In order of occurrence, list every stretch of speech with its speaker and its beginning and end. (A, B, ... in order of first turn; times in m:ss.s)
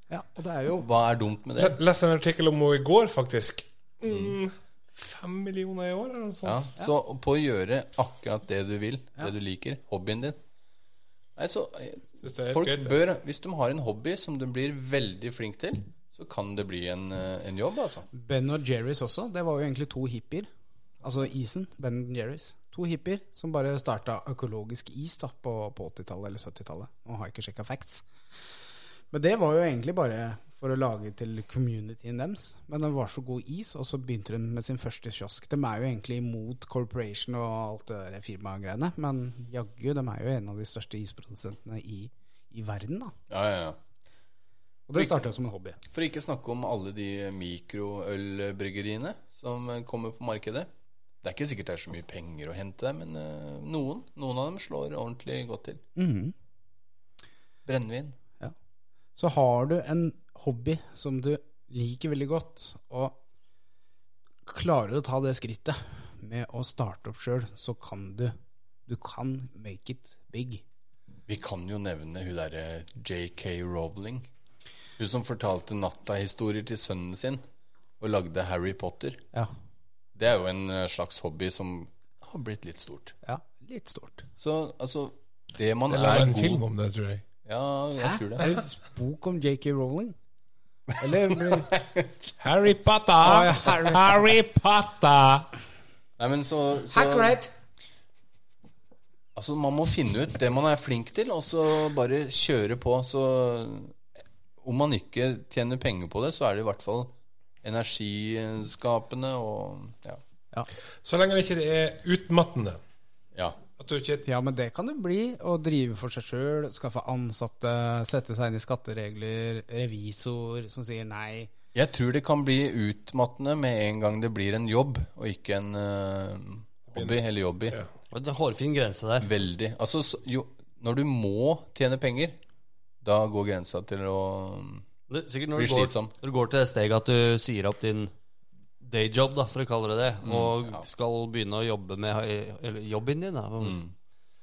0:00.1-0:00.9 A
0:00.8-0:01.8 B
0:01.6-0:06.7 C
0:06.4-0:10.4 B
0:11.4-0:18.1 B
0:12.2-0:13.0 C
0:18.1-0:20.5 A
0:21.0-0:28.0 A
0:29.1-0:43.1 A
0:43.3-0:43.8 B
0:44.9-0:45.8 A
0:45.0-0:45.2 B
0:45.9-0:50.7 B
0:51.2-0:55.8 B
0:56.0-0:56.3 A
0:57.6-0:58.2 B
0:59.2-1:03.2 A
1:04.4-1:08.4 A
1:08.9-1:10.6 A
1:11.3-1:14.3 B
1:15.0-1:17.4 B
1:18.0-1:19.2 B
1:20.1-1:23.1 B
1:23.2-1:24.3 A
1:24.4-1:26.6 B
1:25.9-1:27.2 C
1:27.4-1:28.5 B
1:28.0-1:30.1 A
1:31.0-1:31.7 A
1:31.5-1:32.1 B
1:32.4-1:35.5 C
1:33.2-1:34.2 A
1:36.2-1:37.4 B
1:36.9-1:37.5 A
1:39.4-1:44.0 B
1:44.6-1:47.1 B
1:47.6-1:50.2 B
1:51.0-1:52.8 C
1:53.3-1:53.6 B
1:53.8-1:54.3 C
1:54.2-2:01.5 A
2:01.7-2:07.8 B
2:08.1-2:09.3 D
2:09.2-2:12.4 B
2:13.0-2:14.9 B
2:15.1-2:18.1 D
2:15.6-2:16.1 B
2:18.8-2:23.8 D
2:20.2-2:20.9 B
2:23.6-2:23.9 B